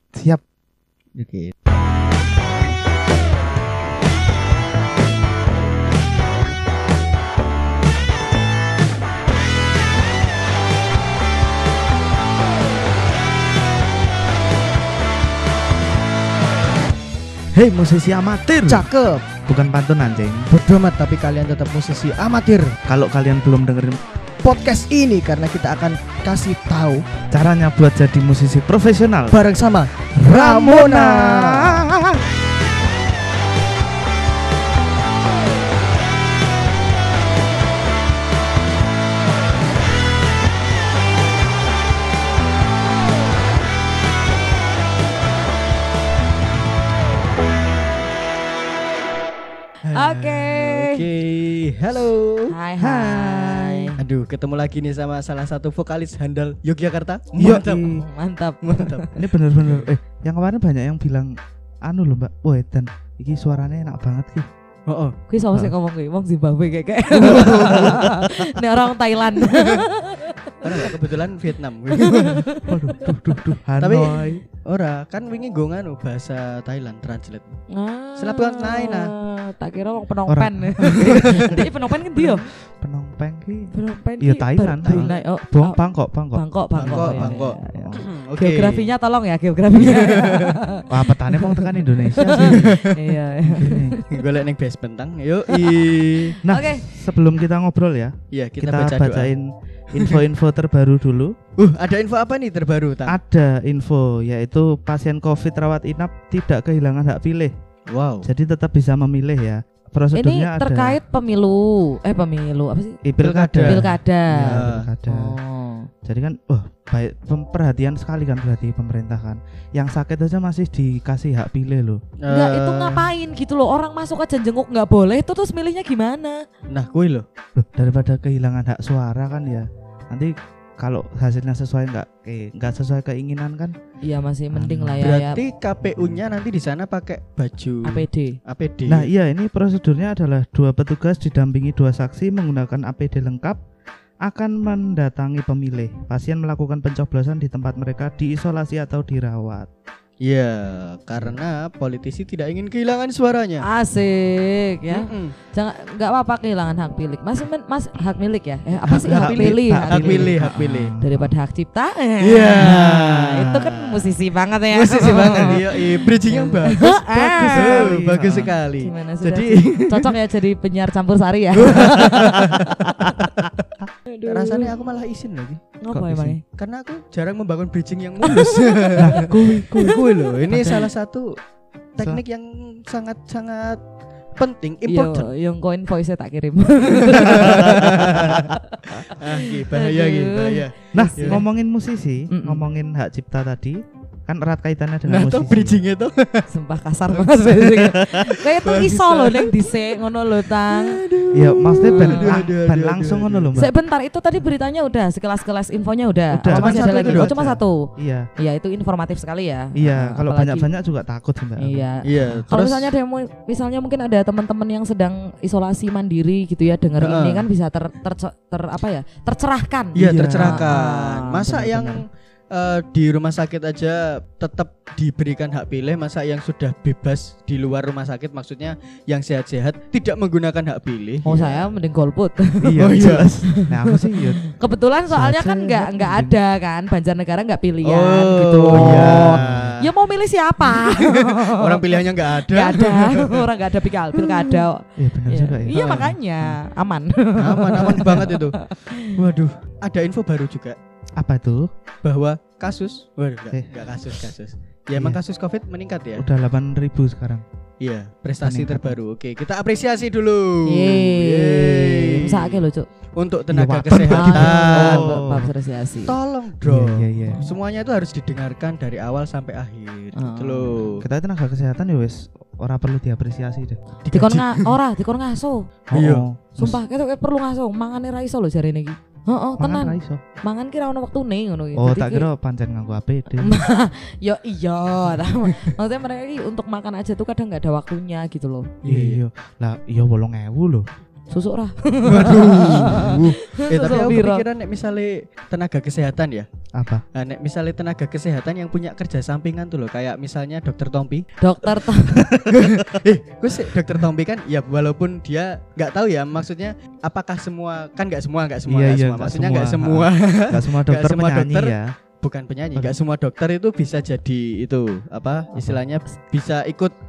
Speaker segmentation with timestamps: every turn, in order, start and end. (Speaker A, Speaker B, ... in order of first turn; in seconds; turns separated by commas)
Speaker A: 0.1-0.4, Speaker B: 1.2-1.5, Speaker A: 17.5-18.9, Speaker B: 18.7-19.2, Speaker A: 19.5-20.5, Speaker B: 20.5-22.8, Speaker A: 22.9-24.0, Speaker B: 24.4-27.1, Speaker A: 27.3-29.4, Speaker B: 29.3-31.9, Speaker A: 30.2-32.2, Speaker B: 49.9-52.5, Speaker C: 49.9-51.0, Speaker C: 52.5-54.0, Speaker A: 52.8-53.9, Speaker B: 54.0-57.9, Speaker A: 57.4-58.0, Speaker C: 57.9-59.1, Speaker B: 58.6-59.9, Speaker A: 59.2-64.5, Speaker B: 64.9-65.2, Speaker C: 65.3-71.1, Speaker B: 67.2-68.0, Speaker A: 67.3-68.3, Speaker B: 69.5-69.8, Speaker B: 70.6-72.5, Speaker C: 71.9-73.4, Speaker A: 72.7-74.4, Speaker B: 73.8-77.6, Speaker C: 77.7-82.5, Speaker B: 78.2-79.1, Speaker A: 80.3-88.0, Speaker B: 80.8-81.6, Speaker C: 83.7-85.8, Speaker B: 84.8-85.2, Speaker C: 86.3-94.2, Speaker B: 86.8-88.9, Speaker B: 89.8-90.6, Speaker A: 90.9-92.8, Speaker B: 92.3-93.1, Speaker A: 93.5-94.0, Speaker B: 94.1-96.4, Speaker C: 95.5-96.9, Speaker A: 96.5-101.3, Speaker B: 98.3-99.3, Speaker B: 100.0-100.2, Speaker B: 101.6-103.2, Speaker A: 103.1-107.5, Speaker B: 107.9-108.3, Speaker A: 108.2-111.0, Speaker C: 110.1-113.0, Speaker A: 113.0-115.4, Speaker B: 113.2-113.8, Speaker C: 113.7-115.9, Speaker B: 114.5-114.9, Speaker A: 116.0-122.0, Speaker B: 122.2-123.1, Speaker C: 122.3-126.5, Speaker B: 126.7-127.3, Speaker A: 127.5-133.8, Speaker C: 134.0-135.4, Speaker A: 134.5-135.2, Speaker B: 135.0-139.1, Speaker A: 136.0-136.2, Speaker C: 137.8-138.4, Speaker A: 138.9-143.6, Speaker A: 144.2-149.7, Speaker B: 150.2-153.7, Speaker C: 153.6-160.3, Speaker B: 154.9-155.3, Speaker B: 158.9-160.9, Speaker A: 159.0-161.3, Speaker C: 161.0-168.0, Speaker B: 162.2-164.1, Speaker A: 162.6-163.0, Speaker B: 164.7-170.2, Speaker A: 167.1-168.5, Speaker C: 168.8-173.2, Speaker B: 171.6-173.7, Speaker A: 172.5-173.5, Speaker C: 174.1-174.7, Speaker B: 174.3-175.7, Speaker C: 175.8-176.4, Speaker A: 175.9-176.4, Speaker B: 176.6-179.3, Speaker C: 178.3-180.4, Speaker A: 179.0-180.9, Speaker B: 179.8-181.4, Speaker B: 182.0-183.8, Speaker B: 184.4-185.3, Speaker C: 184.9-191.4, Speaker B: 187.0-191.4, Speaker A: 187.7-188.5, Speaker A: 190.9-195.8, Speaker C: 192.3-192.7, Speaker B: 195.1-196.5, Speaker C: 196.5-201.1, Speaker B: 197.1-203.5, Speaker A: 201.3-203.7, Speaker C: 201.8-202.4, Speaker C: 203.6-210.7, Speaker A: 206.3-208.3, Speaker B: 206.5-207.4, Speaker A: 209.8-212.5, Speaker C: 211.6-221.4, Speaker B: 212.0-212.9, Speaker B: 217.0-217.5, Speaker B: 219.9-231.7, Speaker A: 220.0-220.7, Speaker A: 221.5-222.0, Speaker C: 231.2-249.1, Speaker A: 232.6-234.4, Speaker B: 232.8-233.3, Speaker A: 235.1-236.4, Speaker B: 237.8-239.9, Speaker A: 238.7-239.8, Speaker B: 240.6-243.4, Speaker B: 244.2-244.6, Speaker A: 245.0-246.6, Speaker B: 247.4-250.8, Speaker A: 251.2-251.7, Speaker B: 252.0-256.3, Speaker A: 253.5-254.3, Speaker A: 254.9-255.2, Speaker A: 256.2-257.4, Speaker B: 257.8-262.6, Speaker A: 258.4-259.0, Speaker C: 260.7-262.9, Speaker B: 263.2-265.3, Speaker A: 263.5-265.5, Speaker C: 264.1-266.2, Speaker B: 266.1-271.1, Speaker A: 266.6-267.5, Speaker C: 267.3-267.5, Speaker C: 270.1-271.0, Speaker A: 271.0-273.8, Speaker B: 274.0-274.7, Speaker C: 274.1-275.7, Speaker A: 275.9-276.8, Speaker B: 275.9-276.3, Speaker C: 276.6-282.3, Speaker A: 279.6-280.2, Speaker A: 281.8-283.6, Speaker C: 283.3-288.7, Speaker B: 285.4-285.7, Speaker B: 288.8-289.2, Speaker A: 288.9-290.9, Speaker C: 291.3-294.5, Speaker B: 292.0-296.5, Speaker A: 296.7-297.0, Speaker B: 297.1-301.3, Speaker C: 301.4-302.4, Speaker A: 302.1-303.0, Speaker B: 302.5-316.9, Speaker A: 308.7-311.9